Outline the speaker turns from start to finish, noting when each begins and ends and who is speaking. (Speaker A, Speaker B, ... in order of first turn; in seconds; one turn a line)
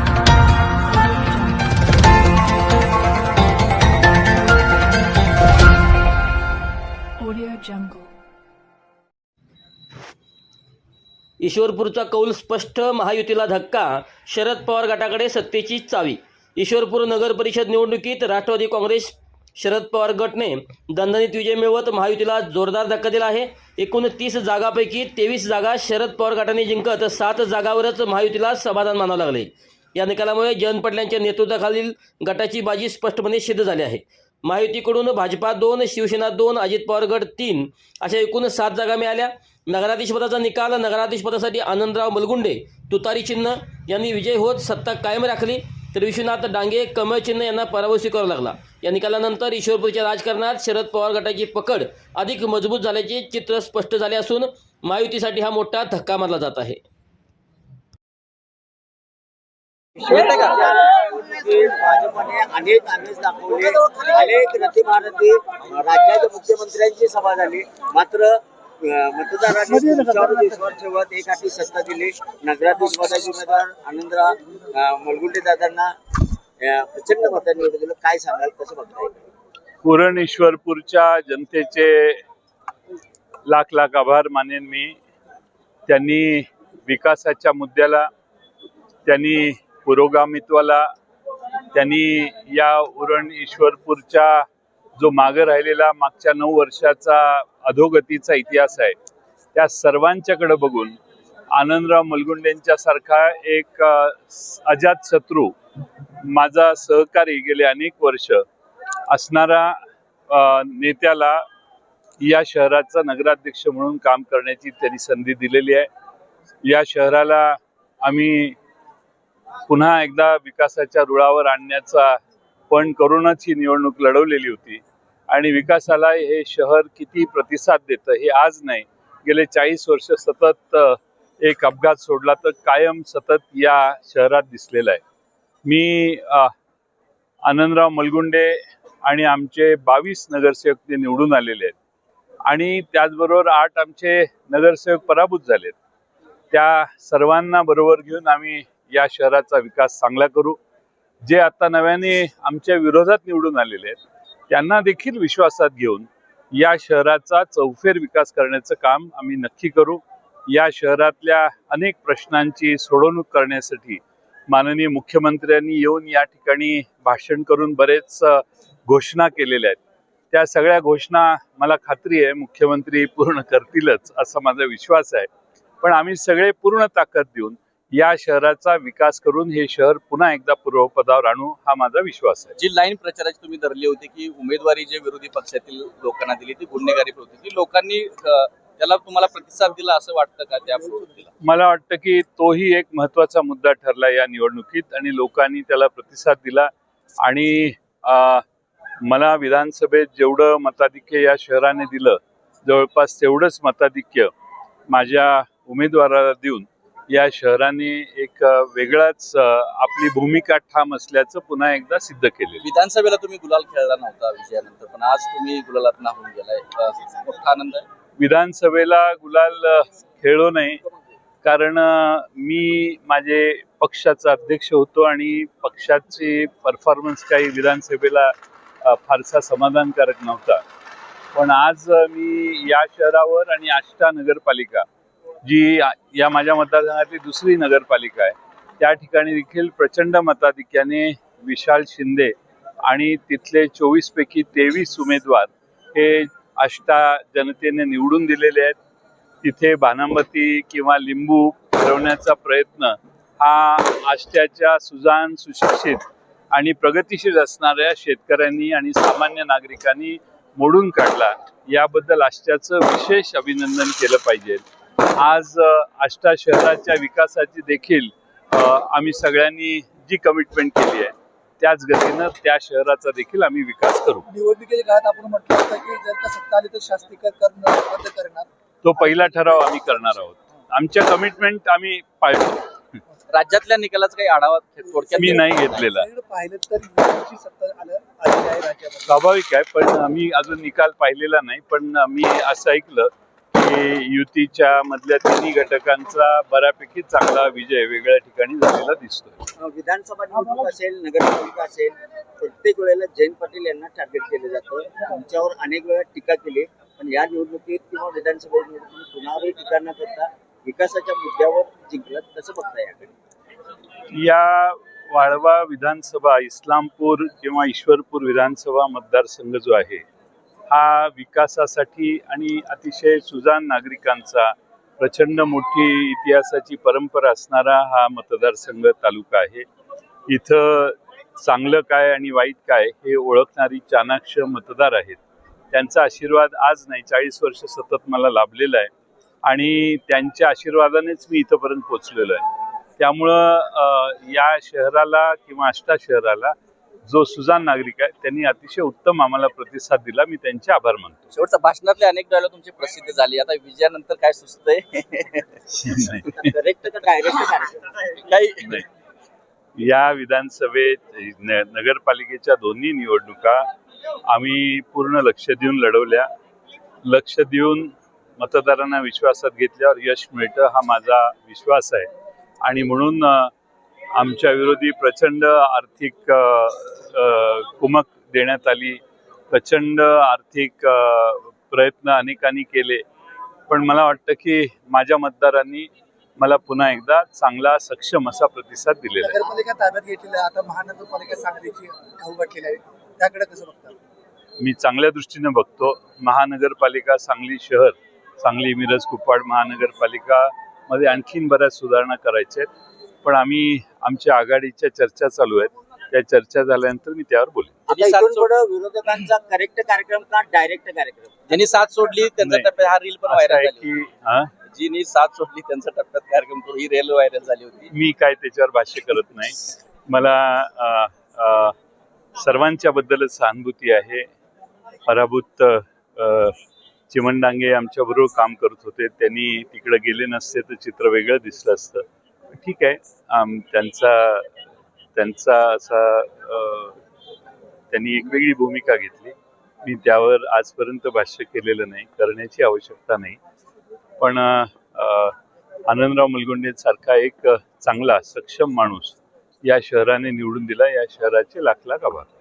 Speaker A: 0.9-1.9
Speaker A: 2.5-2.8
Speaker A: 4.3-5.2
Speaker A: 7.2-8.1
Speaker B: 11.4-56.8
Speaker C: 60.0-75.9
Speaker C: 76.6-79.2
Speaker D: 79.8-82.2
Speaker D: 83.5-85.0
Speaker D: 85.9-88.1
Speaker D: 89.1-90.9
Speaker D: 91.7-94.4
Speaker D: 95.0-98.9
Speaker D: 99.5-101.0
Speaker D: 101.5-105.5
Speaker D: 106.2-108.4
Speaker D: 109.1-109.8
Speaker D: 110.3-111.4
Speaker D: 112.2-115.9
Speaker D: 116.7-118.6
Speaker D: 119.7-122.2
Speaker D: 122.7-135.0
Speaker D: 135.7-136.5
Speaker D: 137.4-141.8
Speaker D: 142.5-145.8
Speaker D: 146.5-150.6
Speaker D: 151.2-169.8
Speaker D: 170.3-175.3
Speaker D: 175.8-182.5
Speaker E: 182.6-191.3
Speaker D: 191.4-196.7
Speaker D: 197.2-198.4
Speaker D: 199.0-204.3
Speaker D: 204.9-212.6
Speaker E: 212.6-217.9
Speaker D: 218.2-220.8
Speaker D: 221.4-228.3
Speaker D: 228.8-230.6
Speaker D: 231.3-234.9
Speaker D: 235.4-248.8
Speaker D: 249.4-264.6
Speaker D: 265.1-274.2
Speaker F: 274.3-279.8
Speaker D: 278.8-282.7
Speaker E: 283.3-285.7
Speaker F: 284.9-289.1
Speaker D: 285.1-286.1
Speaker D: 289.1-299.5
Speaker C: 299.6-313.1
Speaker D: 314.1-320.1
Speaker D: 320.7-329.7
Speaker D: 330.3-335.2
Speaker D: 335.7-338.9
Speaker D: 339.4-342.4
Speaker D: 343.0-346.6
Speaker D: 347.1-351.3
Speaker E: 351.3-355.5
Speaker D: 355.7-356.4
Speaker C: 356.4-358.0
Speaker E: 358.2-358.6
Speaker D: 358.6-358.9
Speaker D: 359.8-363.6
Speaker D: 364.3-366.3
Speaker D: 367.1-372.1
Speaker D: 372.6-373.5
Speaker D: 374.2-379.0
Speaker D: 379.5-383.0
Speaker D: 383.7-389.4
Speaker F: 389.2-394.0
Speaker D: 394.6-402.7
Speaker D: 403.2-407.8
Speaker C: 407.9-411.4
Speaker E: 407.9-408.5
Speaker E: 411.5-413.9
Speaker D: 412.4-412.7
Speaker D: 413.3-414.5
Speaker E: 414.7-417.9
Speaker D: 417.9-421.7
Speaker D: 422.4-424.3
Speaker D: 425.1-426.6
Speaker D: 427.1-432.0
Speaker D: 432.6-434.5
Speaker D: 435.2-437.0
Speaker D: 437.9-443.4
Speaker D: 444.2-445.3
Speaker D: 445.9-452.3